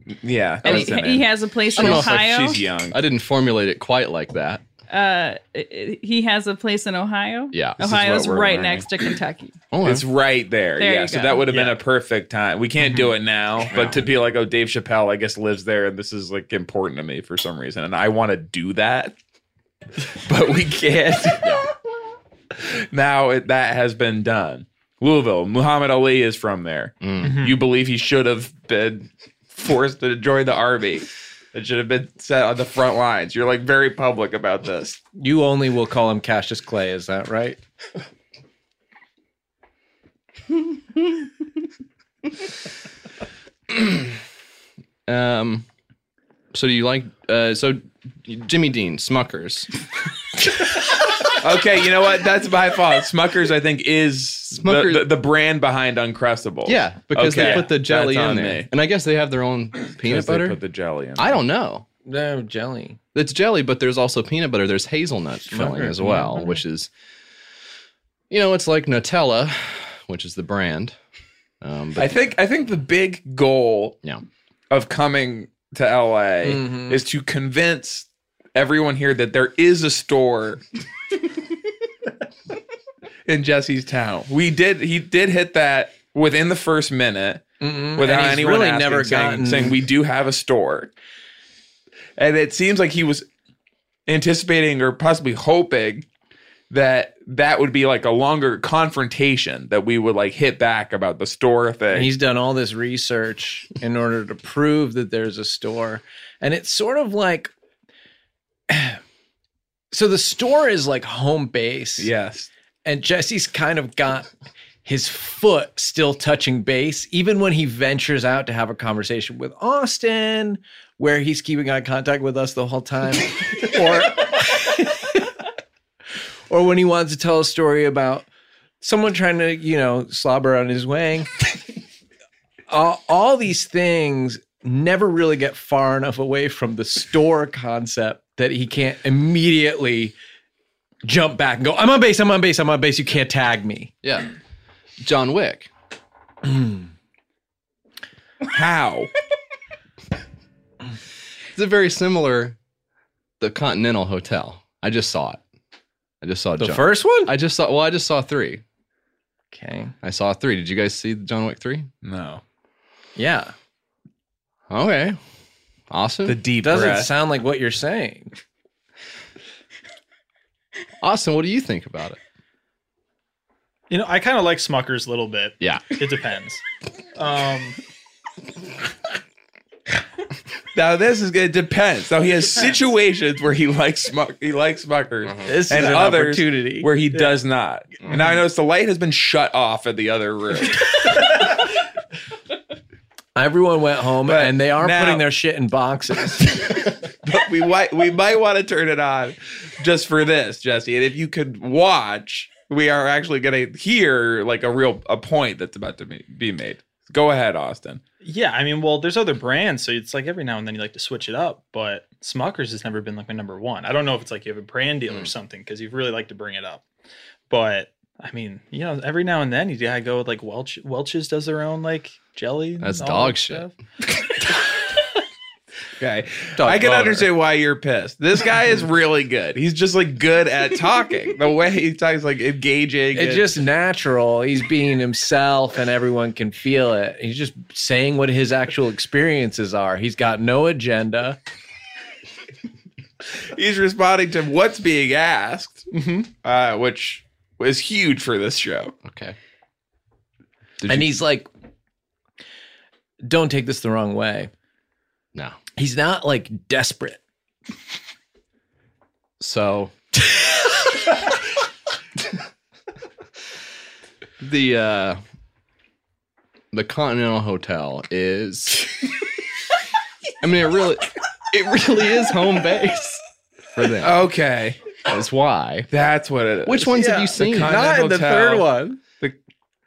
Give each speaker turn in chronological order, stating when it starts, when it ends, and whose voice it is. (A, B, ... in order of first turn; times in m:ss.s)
0:00.2-0:03.0 A
0:00.6-0:02.6 B
0:00.6-0:01.0 C
0:01.8-0:02.3 C
0:02.9-0:04.6 C
0:04.9-0:09.6 B
0:07.5-0:08.8 C
0:08.3-0:08.6 A
0:09.7-0:10.0 C
0:09.8-0:19.1 A
0:10.8-0:11.5 B
0:11.5-0:11.8 D
0:13.7-0:14.0 C
0:20.0-0:21.6 A
0:22.6-0:35.0 A
0:27.0-0:27.3 C
0:27.2-0:27.6 D
0:35.2-0:37.6 E
0:43.7-0:44.0 C
0:45.1-0:45.6 C
0:46.5-0:49.7 C
0:51.3-0:58.7 A
0:54.5-0:55.1 C
0:56.6-1:00.6 C
0:57.4-0:57.6 D
1:00.0-1:01.4 A
1:01.2-1:01.8 C
1:02.0-1:03.0 E
1:03.1-1:06.9 C
1:05.5-1:06.4 E
1:08.3-1:11.0 C
1:11.6-1:12.2 C
1:12.0-1:14.0 A
1:14.7-1:20.6 A
1:16.4-1:17.0 E
1:23.3-1:27.4 A
1:27.6-1:29.8 E
1:28.0-1:30.9 A
1:32.2-1:33.2 A
1:34.1-1:36.0 A
1:36.7-1:42.1 A
1:41.9-1:47.5 E
1:48.7-1:49.0 E
1:49.9-1:52.1 E
1:52.0-1:52.5 A
1:52.8-1:54.3 E
1:54.8-2:05.2 E
2:06.5-2:08.2 E
2:08.8-2:11.3 E
2:12.7-2:20.1 E
2:21.0-2:23.9 E
2:24.0-2:24.3 C
2:25.0-2:25.7 C
2:26.5-2:26.8 E
2:28.5-2:29.1 A
2:31.5-2:32.6 C
2:33.4-2:35.4 C
2:36.2-2:38.6 C
2:36.6-2:37.3 E
2:39.5-2:39.9 E
2:40.0-2:41.9 C
2:42.0-2:42.4 A
2:43.2-2:43.5 E
2:44.7-2:45.2 C
2:45.9-2:46.4 C
2:46.2-2:47.1 A
2:46.6-2:48.3 E
2:51.0-2:52.2 C
2:53.9-2:56.6 D
2:55.6-2:55.8 C
2:57.2-2:57.8 D
3:00.7-3:10.9 A
3:05.2-3:05.5 C
3:05.4-3:06.9 E
3:13.4-3:16.5 E
3:14.3-3:15.2 A
3:17.1-3:28.0 A
3:28.2-3:36.8 D
3:37.5-3:43.7 D
3:42.8-3:43.7 C
3:46.0-3:53.6 A
3:46.6-3:47.3 E
3:53.1-4:01.4 E
4:03.3-4:05.9 A
4:05.9-4:06.3 D
4:06.4-4:08.9 A
4:09.0-4:09.4 C
4:10.8-4:11.2 C
4:10.9-4:11.5 E
4:13.2-4:14.5 E
4:15.8-4:17.2 E
4:19.4-4:19.9 C
4:24.4-4:25.2 C
4:26.7-4:28.9 C
4:30.4-4:33.2 C
4:33.7-4:34.2 C
4:34.0-4:34.8 A
4:35.0-4:35.9 C
4:35.9-4:38.7 A
4:36.6-4:37.8 C
4:36.9-4:39.0 E